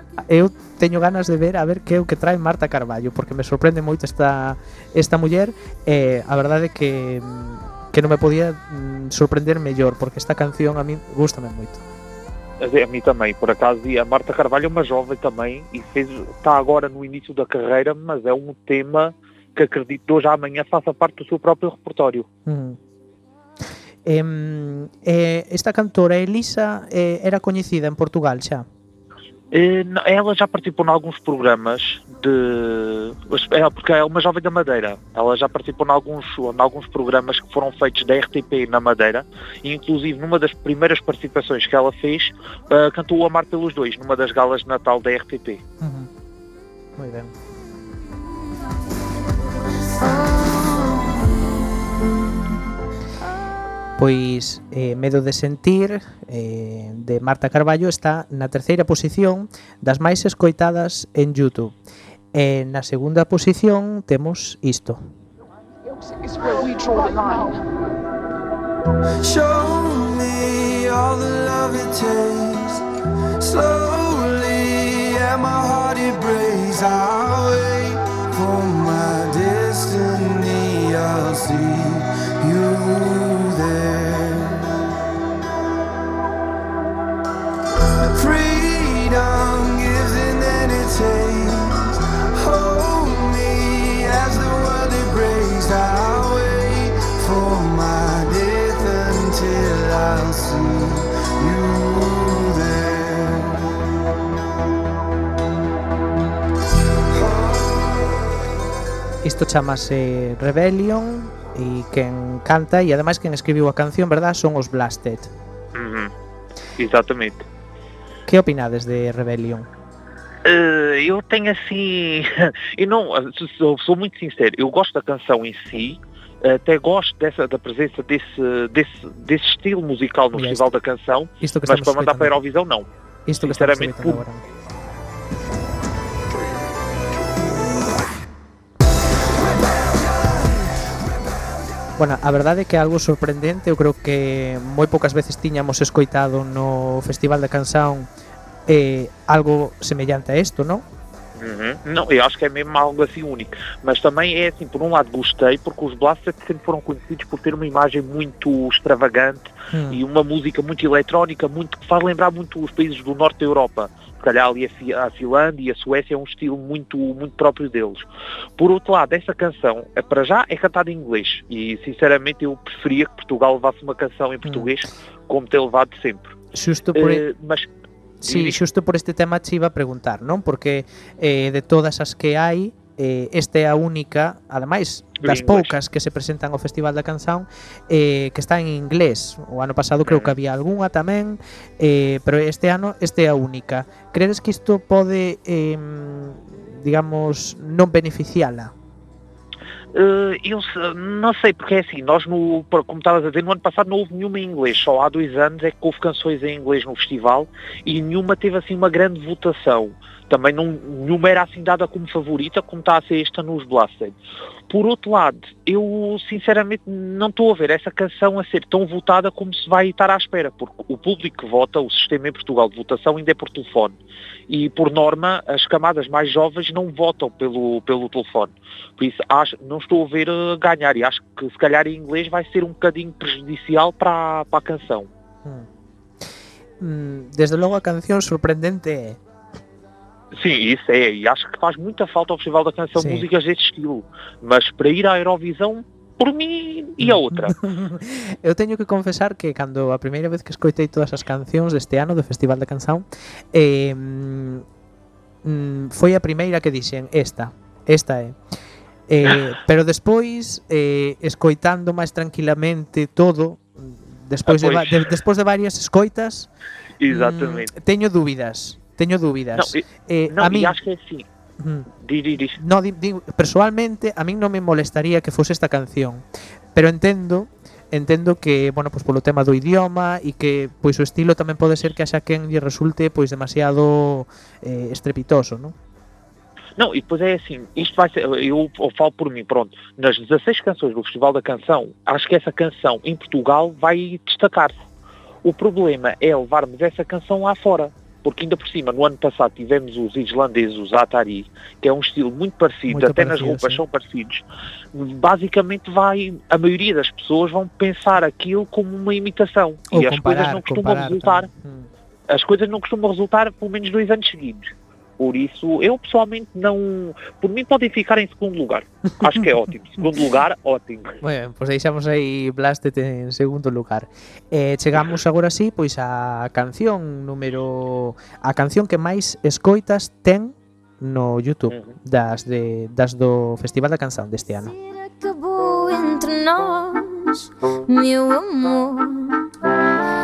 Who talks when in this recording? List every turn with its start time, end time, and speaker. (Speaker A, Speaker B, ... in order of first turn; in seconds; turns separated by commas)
Speaker A: 0.2-11.8, Speaker B: 12.6-22.3, Speaker A: 22.4-22.8, Speaker A: 24.0-28.6, Speaker B: 29.5-45.6, Speaker A: 45.8-46.1, Speaker A: 47.0-47.3, Speaker A: 54.0-61.7, Speaker A: 62.3-65.0, Speaker C: 69.2-72.8, Speaker C: 73.4-84.7, Speaker C: 88.0-103.5, Speaker C: 107.1-108.2, Speaker A: 109.2-115.3, Speaker B: 115.7-116.1, Speaker B: 116.8-117.4, Speaker A: 118.3-119.7, Speaker B: 120.4-132.8, Speaker A: 130.3-130.7, Speaker A: 131.4-132.4, Speaker A: 133.2-134.4, Speaker B: 133.4-134.2, Speaker A: 142.0-148.1, Speaker A: 148.7-150.8, Speaker B: 151.3-168.0, Speaker A: 159.7-160.0, Speaker B: 168.6-176.3, Speaker A: 174.4-174.7, Speaker A: 176.5-177.2, Speaker B: 176.9-177.7, Speaker A: 178.2-198.7, Speaker B: 178.2-178.6, Speaker B: 185.2-185.7, Speaker B: 190.0-190.3, Speaker B: 199.9-214.2, Speaker B: 214.7-224.0, Speaker B: 224.5-235.1, Speaker A: 236.8-239.2, Speaker B: 240.3-247.6, Speaker A: 242.9-243.2, Speaker A: 247.0-254.6, Speaker A: 255.4-258.4, Speaker A: 259.1-266.5, Speaker B: 264.4-265.1, Speaker B: 267.0-267.7, Speaker A: 267.1-270.8, Speaker B: 269.5-271.2, Speaker A: 271.6-271.9, Speaker B: 271.9-272.6, Speaker A: 272.6-285.7, Speaker B: 286.8-294.8, Speaker B: 295.4-311.5, Speaker A: 302.9-303.8, Speaker A: 309.9-311.9, Speaker B: 312.3-321.2, Speaker A: 321.2-334.7, Speaker B: 331.7-331.9, Speaker D: 334.7-339.4